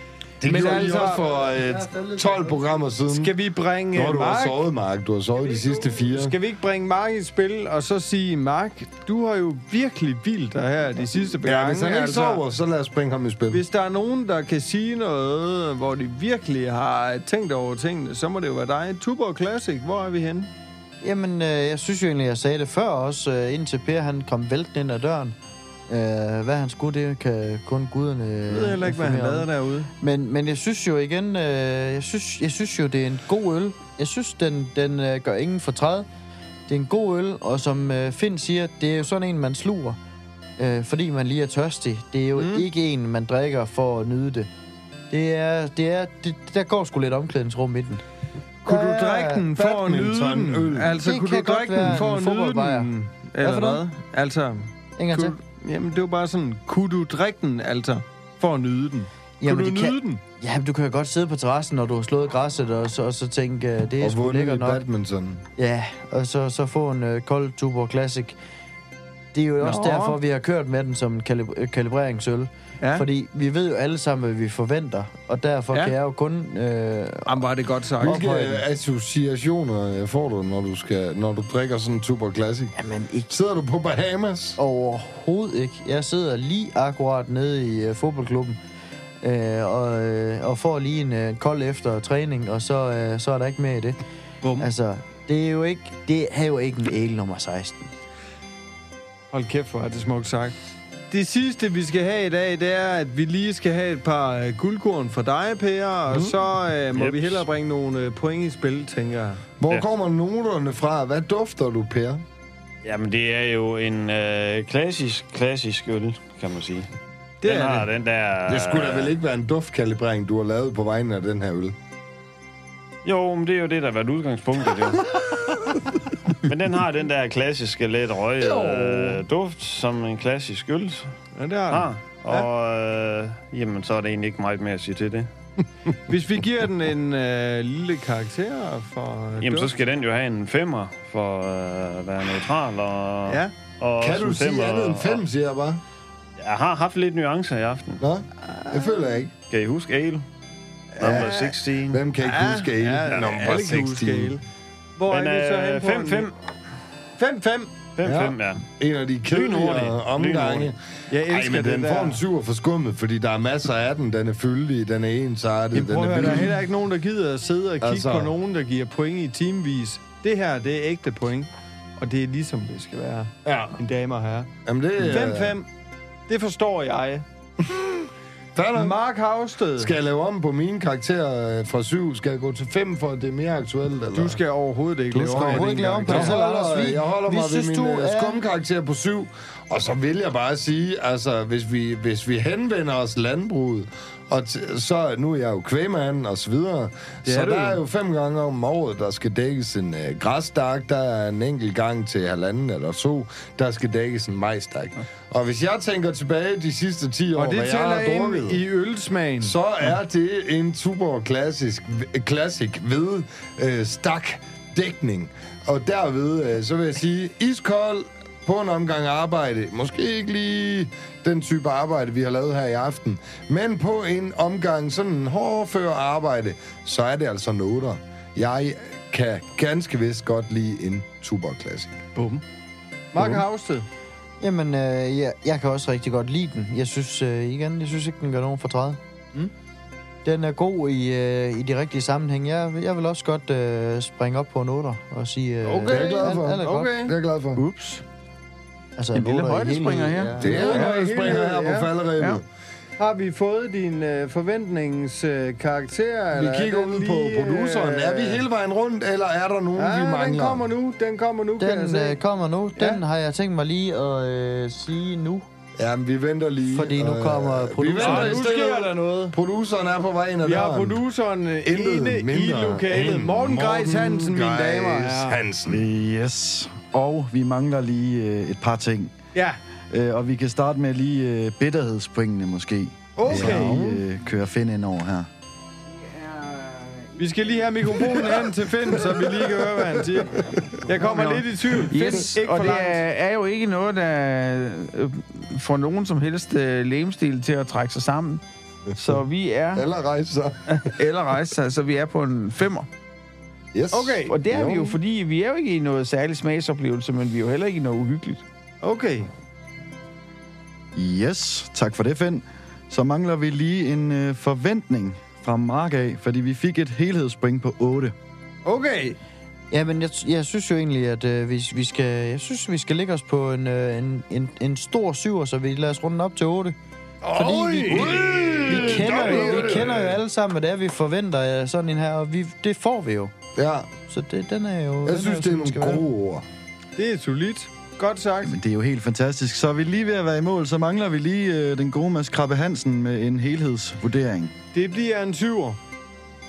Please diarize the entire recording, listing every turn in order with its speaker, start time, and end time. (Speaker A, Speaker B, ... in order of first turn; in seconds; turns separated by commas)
Speaker A: 0.4-3.4, Speaker B: 0.4-1.3, Speaker C: 1.8-2.5, Speaker B: 3.1-4.7, Speaker A: 3.9-6.4, Speaker B: 5.4-12.4, Speaker A: 11.4-13.6, Speaker B: 13.5-20.5, Speaker C: 21.0-25.4, Speaker C: 25.9-29.5, Speaker B: 28.5-29.9, Speaker C: 30.0-36.1, Speaker C: 36.7-40.0, Speaker C: 40.6-44.5, Speaker B: 42.4-42.7, Speaker C: 45.1-48.0, Speaker B: 48.6-60.2, Speaker C: 48.7-49.5, Speaker A: 49.5-50.9, Speaker C: 51.0-53.8, Speaker C: 55.0-55.4, Speaker C: 59.4-64.8, Speaker A: 64.0-65.4, Speaker C: 65.6-68.4, Speaker C: 69.3-77.4, Speaker B: 69.6-70.2, Speaker B: 72.8-73.1, Speaker B: 77.3-78.4, Speaker C: 78.0-78.6, Speaker A: 78.0-82.8, Speaker C: 82.8-83.3, Speaker A: 83.3-84.6, Speaker C: 84.6-88.6, Speaker C: 89.2-94.0, Speaker B: 94.4-94.7, Speaker C: 94.6-97.9, Speaker B: 99.3-100.6, Speaker B: 101.1-109.4, Speaker D: 106.9-107.5, Speaker A: 109.6-112.2, Speaker D: 112.8-116.9, Speaker B: 117.4-118.0, Speaker D: 117.4-119.1, Speaker A: 118.5-121.8, Speaker D: 123.0-125.2, Speaker D: 126.5-131.1, Speaker A: 128.4-129.2, Speaker B: 131.3-132.5, Speaker D: 131.7-135.3, Speaker B: 136.1-139.9, Speaker D: 139.4-145.2, Speaker B: 143.3-143.5, Speaker A: 144.0-145.8, Speaker D: 146.4-148.0, Speaker A: 148.0-149.3, Speaker B: 148.5-149.2, Speaker D: 149.4-150.2, Speaker D: 151.0-152.1, Speaker B: 151.0-154.4, Speaker A: 151.0-151.3, Speaker A: 151.9-154.4, Speaker D: 153.1-153.6, Speaker B: 155.0-156.3, Speaker D: 155.1-156.3, Speaker B: 157.2-157.9, Speaker D: 158.0-158.6, Speaker A: 158.0-166.6, Speaker B: 159.3-159.8, Speaker D: 159.8-160.7, Speaker B: 161.1-162.2, Speaker B: 165.7-175.7, Speaker A: 167.8-168.3, Speaker A: 173.4-173.8, Speaker A: 174.7-175.6, Speaker B: 176.3-177.2, Speaker A: 178.6-179.0, Speaker B: 178.8-179.9, Speaker A: 179.8-184.4, Speaker B: 184.1-186.4, Speaker C: 185.1-188.5, Speaker A: 185.1-208.6, Speaker B: 197.3-197.8, Speaker B: 207.3-210.0, Speaker A: 209.4-232.0, Speaker B: 232.2-232.4, Speaker B: 233.1-233.8, Speaker C: 234.4-239.0, Speaker C: 240.2-247.0, Speaker B: 245.6-247.2, Speaker A: 245.9-247.6, Speaker E: 247.6-248.0, Speaker C: 249.0-250.9, Speaker E: 249.1-250.6, Speaker A: 250.4-252.4, Speaker B: 250.4-251.9, Speaker B: 253.0-258.4, Speaker A: 256.3-260.7, Speaker B: 259.8-262.2, Speaker C: 261.6-265.5, Speaker B: 262.8-263.0, Speaker A: 265.8-271.0, Speaker C: 266.7-268.4, Speaker B: 268.0-269.4, Speaker B: 270.4-275.4, Speaker A: 271.6-275.9, Speaker F: 275.7-279.1, Speaker F: 279.9-285.3, Speaker B: 283.2-284.0, Speaker A: 283.3-284.0, Speaker E: 285.9-287.6, Speaker B: 287.2-293.0, Speaker A: 288.1-289.2, Speaker A: 289.9-290.6, Speaker E: 291.0-298.4, Speaker E: 299.0-299.9, Speaker A: 299.7-300.6, Speaker E: 300.7-302.9, Speaker A: 303.7-305.0, Speaker E: 303.9-308.4, Speaker B: 304.0-304.4, Speaker B: 308.8-309.3, Speaker F: 310.9-318.1, Speaker B: 318.6-319.2, Speaker C: 319.7-326.8, Speaker B: 327.2-330.0, Speaker A: 327.4-330.2, Speaker C: 327.4-333.3, Speaker A: 333.6-333.9, Speaker C: 334.1-336.1, Speaker A: 335.1-336.4, Speaker B: 337.0-338.6, Speaker F: 338.4-344.5, Speaker B: 344.7-345.8